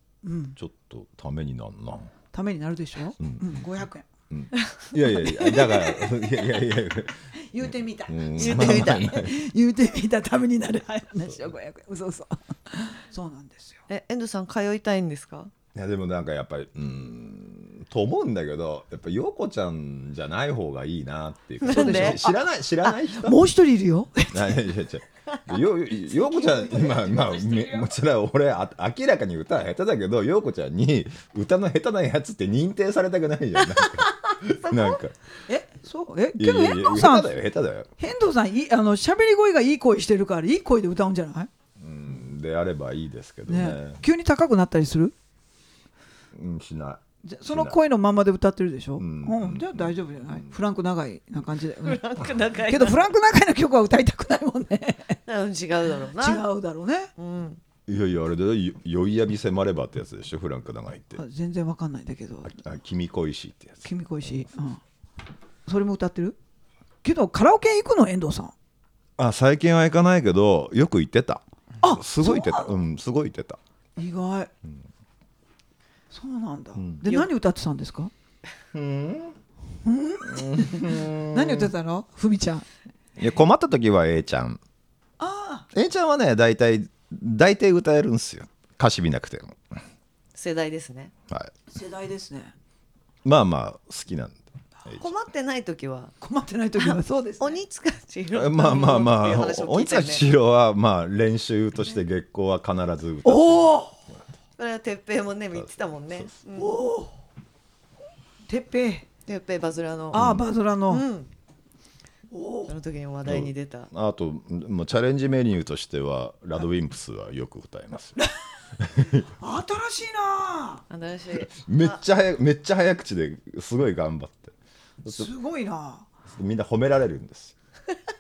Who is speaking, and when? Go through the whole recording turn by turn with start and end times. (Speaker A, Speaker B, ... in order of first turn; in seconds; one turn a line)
Speaker A: 0.2-0.6
Speaker B: 0.6-2.1
Speaker A: 2.3-4.1
Speaker B: 3.2-3.7
Speaker B: 4.3-9.3
Speaker A: 5.2-6.5
Speaker A: 7.5-13.8
Speaker C: 8.4-9.2
Speaker C: 13.9-15.5
Speaker B: 15.7-23.4
Speaker C: 21.6-22.3
Speaker A: 21.7-22.3
Speaker A: 23.2-24.6
Speaker B: 24.3-35.1
Speaker A: 26.1-27.9
Speaker C: 33.8-35.0
Speaker A: 35.5-37.3
Speaker B: 36.4-37.9
Speaker A: 38.0-41.5
Speaker B: 41.8-44.0
Speaker A: 43.5-45.1
Speaker B: 46.3-47.8
Speaker A: 47.2-52.0
Speaker B: 49.0-50.5
Speaker C: 51.8-53.0
Speaker A: 52.7-55.2
Speaker C: 55.3-56.5
Speaker A: 56.1-57.1
Speaker C: 57.2-57.6
Speaker B: 57.9-61.2
Speaker A: 61.2-62.6
Speaker B: 62.5-64.5
Speaker A: 63.8-64.8
Speaker A: 65.7-66.4
Speaker A: 67.0-68.5
Speaker B: 69.2-73.6
Speaker A: 71.8-72.7
Speaker A: 74.0-74.5
Speaker A: 76.1-78.1
Speaker B: 76.8-77.0
Speaker B: 78.7-79.4
Speaker A: 79.8-82.7
Speaker B: 80.2-81.7
Speaker B: 83.2-84.6
Speaker A: 85.2-85.7
Speaker B: 85.7-89.8
Speaker C: 90.3-91.1
Speaker A: 91.7-92.5
Speaker B: 93.2-95.1
Speaker C: 95.0-96.1
Speaker A: 96.2-97.6
Speaker C: 96.8-100.2
Speaker B: 98.3-104.2
Speaker A: 103.2-104.0
Speaker C: 104.6-106.7
Speaker B: 105.5-106.3
Speaker A: 106.5-107.2
Speaker A: 108.5-109.1
Speaker C: 109.3-110.3
Speaker A: 110.1-111.1
Speaker B: 110.1-110.4
Speaker C: 110.9-111.3
Speaker A: 112.3-112.7
Speaker C: 112.7-113.9
Speaker B: 113.2-118.2
Speaker B: 118.8-119.3
Speaker A: 119.4-120.8
Speaker C: 120.9-122.0
Speaker B: 121.3-125.3
Speaker A: 125.1-126.1
Speaker B: 126.3-127.5